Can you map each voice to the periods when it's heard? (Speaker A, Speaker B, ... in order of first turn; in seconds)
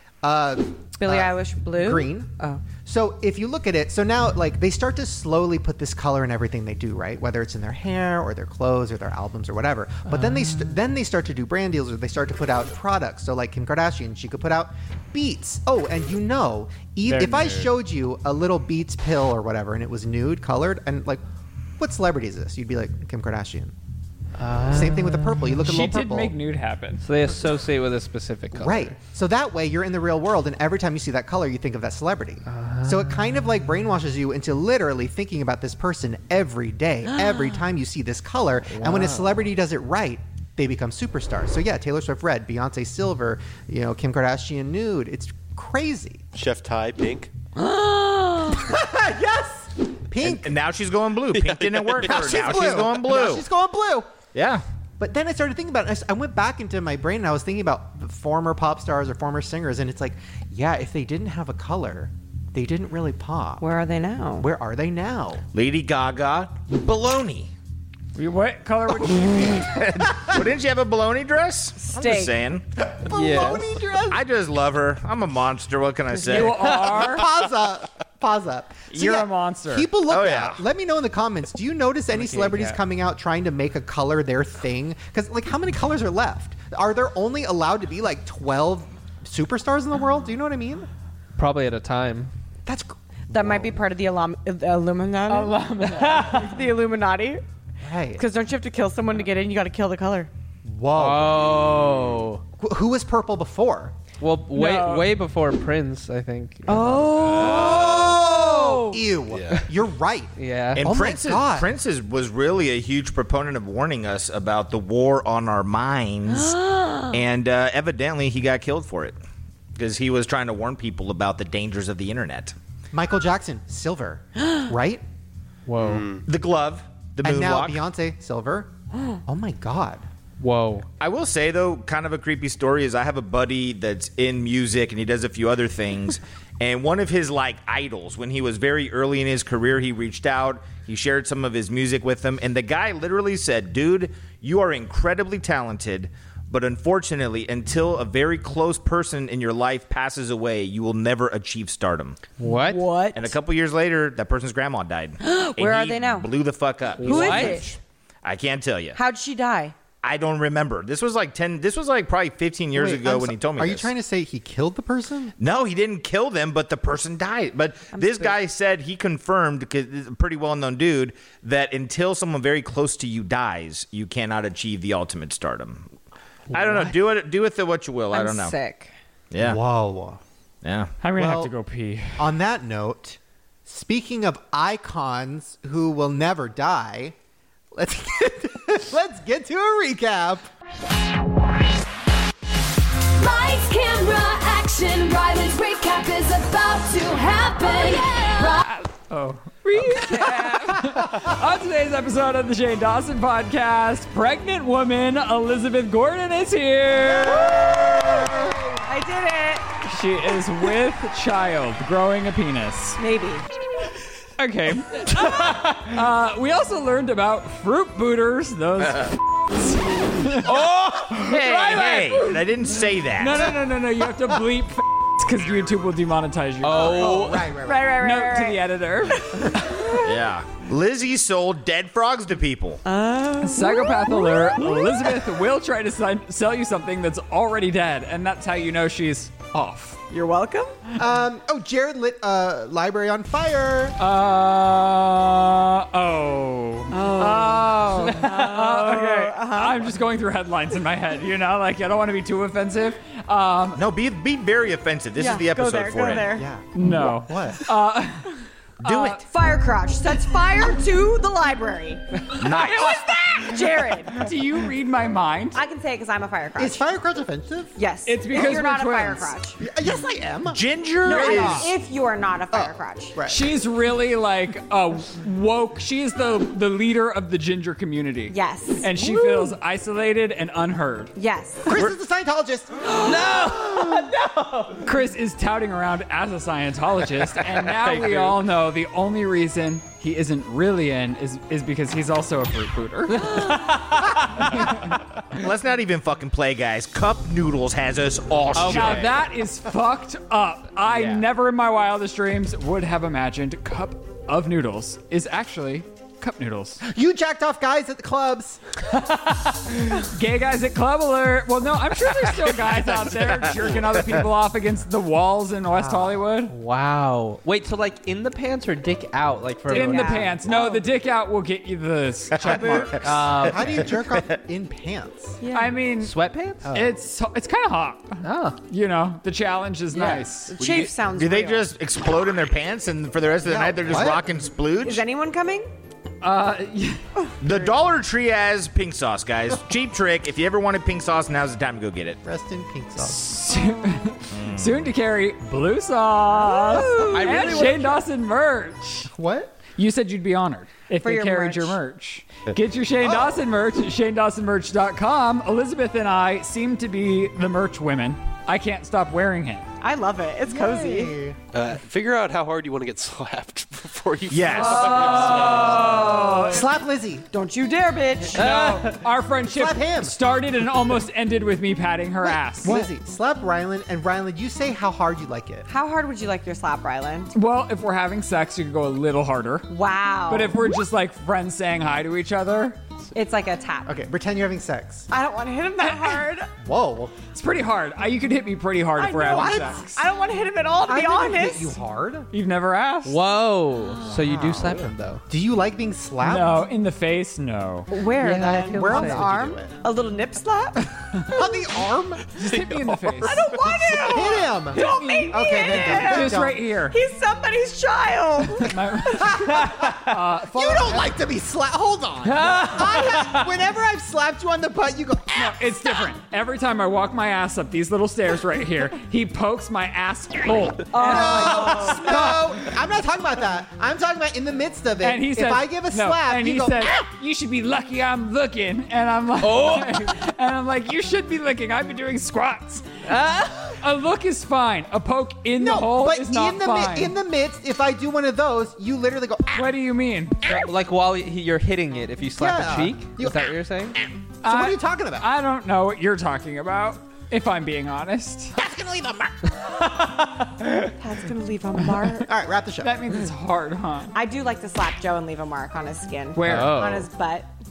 Speaker A: 0.2-2.3, 2.8-21.2, 21.8-23.7, 24.7-26.4, 28.5-46.3, 48.5-50.5, 52.0-54.1, 55.0-63.6, 64.4-65.4, 70.0-70.4, 72.8-74.2, 76.4-90.9, 92.7-93.7, 97.8-98.2, 100.7-101.6, 102.6-104.0, 107.3-111.7, 122.9-125.0, 127.2-128.7, 129.2-130.1, 162.8-165.3, 179.4-180.2, 181.2-181.5, 182.2-187.2, 187.7-190.5, 200.7-201.1, 207.0-208.8, 226.8-228.0, 241.0-244.0, 256.4-257.6, 266.6-267.7, 269.6-271.7, 272.5-273.5, 281.6-282.8, 306.9-308.6, 315.7-316.2, 322.4-325.4, 333.4-334.2, 342.2-343.4, 349.1-349.6, 353.0-353.4, 360.5-361.4, 366.4-367.3, 369.4-370.2, 372.2-375.7, 383.9-385.1, 386.6-387.1, 389.2-389.8, 390.9-392.3, 394.0-396.7, 398.4-399.7, 401.2-402.9, 403.6-406.6, 409.1-416.1, 421.0-426.9, 435.6-439.8, 442.4-443.6, 444.4-445.3, 452.2-453.1
Speaker B: 1.0-2.6, 47.6-48.6, 63.6-64.5, 71.8-72.3, 93.3-97.4, 98.2-100.3, 106.7-107.7, 116.4-117.1, 152.4-153.3, 155.2-156.3, 157.0-157.8, 158.9-159.7, 167.9-168.4, 178.1-178.9, 200.1-200.5, 207.2-209.7, 213.0-213.5, 226.9-228.6, 229.2-229.9, 232.8-235.1, 240.1-240.8, 246.9-249.9, 255.2-256.4, 259.3-264.3, 265.5-266.8, 267.8-269.6, 271.1-273.2, 278.3-279.3, 281.1-281.7, 283.0-284.8, 293.2-293.7, 319.7-320.8, 325.4-325.8, 329.9-331.7, 334.8-335.7, 337.1-337.4, 343.5-343.9, 346.4-347.7, 351.0-351.8, 359.8-361.1, 364.9-366.4, 367.3-368.5, 375.7-377.3, 379.7-380.7, 383.1-383.9, 385.1-386.5, 389.0-391.8, 397.9-401.5, 403.2-409.3, 420.9-421.8, 451.0-452.3, 454.1-457.5
Speaker C: 10.1-10.7, 24.4-25.6, 27.0-29.0, 32.5-33.3, 38.7-39.5, 73.1-73.7, 82.1-82.8, 91.4-92.3, 96.0-96.3, 100.9-102.4, 104.2-107.5, 110.4-110.9, 125.7-126.1, 130.4-130.9, 152.4-152.8, 157.0-157.8, 220.5-221.3, 226.6-227.5, 283.0-284.0, 287.4-288.4, 293.3-294.4, 298.5-299.2, 316.5-320.3, 323.0-323.9, 326.0-326.9, 328.2-328.6, 346.9-348.0, 368.4-369.0, 393.1-395.2, 398.2-399.3, 412.3-413.5, 429.4-430.1, 433.1-433.8, 440.5-444.0, 456.5-457.1
Speaker D: 17.1-17.7, 25.6-27.1, 68.2-69.7, 76.2-77.3, 78.9-79.9, 95.3-96.5, 104.5-105.2, 107.6-109.0, 181.0-182.3, 198.7-207.6, 209.8-213.0, 214.4-220.7, 221.3-222.5, 223.1-227.3, 228.0-229.9, 233.4-240.0, 244.0-253.8, 256.7-259.2, 262.6-265.6, 268.1-269.4, 273.3-281.1, 284.8-295.0, 298.6-306.8, 308.9-316.6, 319.7-323.1, 325.5-330.6, 336.2-337.1, 343.0-349.1, 349.7-359.7, 364.5-366.7, 368.3-372.9, 377.3-379.7, 380.3-382.8, 385.8-386.3, 387.3-390.0, 392.3-393.2, 396.2-397.9, 402.3-404.0, 404.7-407.0, 408.6-411.1, 415.4-422.7, 425.0-432.9, 433.8-437.2, 439.5-440.6, 444.4-448.5, 452.8-454.1, 456.4-457.0
Speaker E: 46.3-47.3, 51.3-52.8, 101.7-102.1, 107.2-107.8, 109.3-109.6, 125.8-126.2, 361.5-365.8
Speaker F: 50.2-53.5, 54.3-54.6, 65.5-67.5, 69.5-72.7, 74.1-76.8, 80.1-80.7, 110.8-119.2, 119.8-122.5, 126.3-127.8, 131.0-152.2, 153.2-157.6, 158.2-159.0, 160.0-163.9, 165.4-175.9, 176.5-178.6, 179.3-179.6, 180.6-180.9, 221.2-223.6, 230.0-232.8, 253.8-256.4, 258.8-259.2, 262.4-263.1, 270.4-271.7, 295.3-299.1, 322.4-324.4, 331.1-335.0, 337.4-342.2, 344.3-344.9, 364.3-365.2, 448.7-449.3
Speaker G: 193.2-198.7